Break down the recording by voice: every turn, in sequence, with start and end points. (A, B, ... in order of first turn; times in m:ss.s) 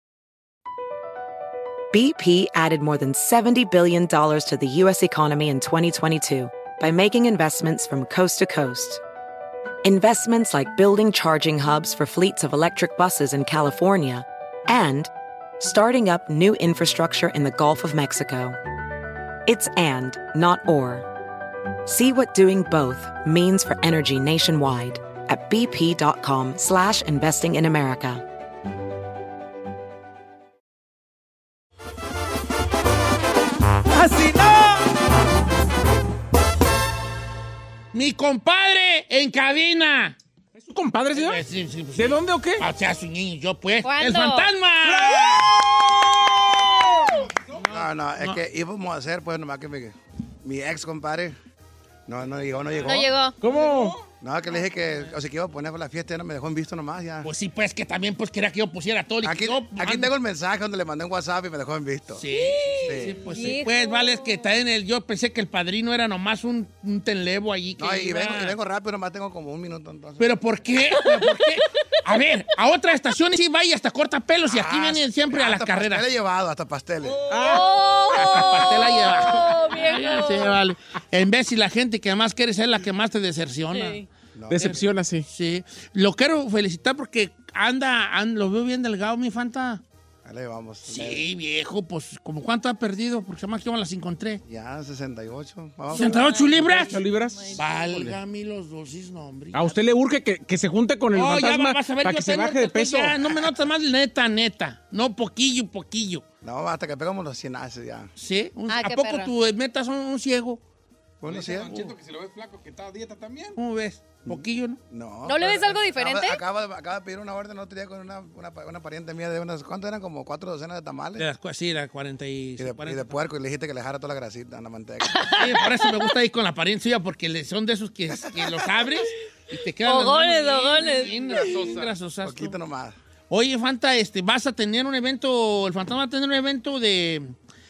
0:01.9-0:09.0 A
0:09.8-0:18.6 A
0:19.4-0:21.1 A
0:21.8-0:28.2 A
0:34.0-0:34.8 B
0:37.9-0:40.2 C
0:40.6-0:41.4 B
0:41.1-0:45.5 C
0:42.0-0:42.7 B
0:43.8-0:44.5 D
0:44.8-0:46.7 B
0:47.7-0:51.4 E
0:52.1-0:53.1 E
0:52.8-0:53.4 D
0:53.4-0:54.0 B
0:53.5-0:54.0 F
0:54.2-0:57.3 E
0:57.2-1:00.1 C
0:59.2-1:02.2 E
1:02.2-1:08.6 C
1:02.3-1:04.5 D
1:02.8-1:03.2 E
1:07.8-1:10.3 E
1:10.2-1:16.0 C
1:11.2-1:11.5 D
1:14.5-1:17.2 E
1:17.0-1:17.7 F
1:17.3-1:17.7 B
1:17.4-1:20.6 D
1:18.1-1:24.0 C
1:23.7-1:24.1 D
1:24.3-1:24.8 E
1:24.5-1:25.3 B
1:24.6-1:29.8 C
1:30.2-1:31.2 E
1:30.9-1:34.4 C
1:34.5-1:36.7 E
1:35.9-1:38.0 D
1:35.9-1:37.0 C
1:36.8-1:38.2 B
1:37.5-1:39.8 C
1:39.5-1:43.2 B
1:41.1-1:46.2 C
1:46.4-1:48.1 E
1:48.2-1:50.6 C
1:48.7-1:49.3 D
1:51.2-1:51.7 E
1:51.2-1:53.6 F
1:51.7-1:51.9 C
1:53.6-1:54.8 C
1:54.2-2:01.3 E
1:55.2-1:56.4 D
2:01.2-2:03.2 C
2:02.6-2:05.4 E
2:05.2-2:06.0 D
2:05.4-2:12.6 C
2:09.8-2:11.5 D
2:10.8-2:11.9 F
2:12.2-2:13.0 E
2:13.3-2:17.3 C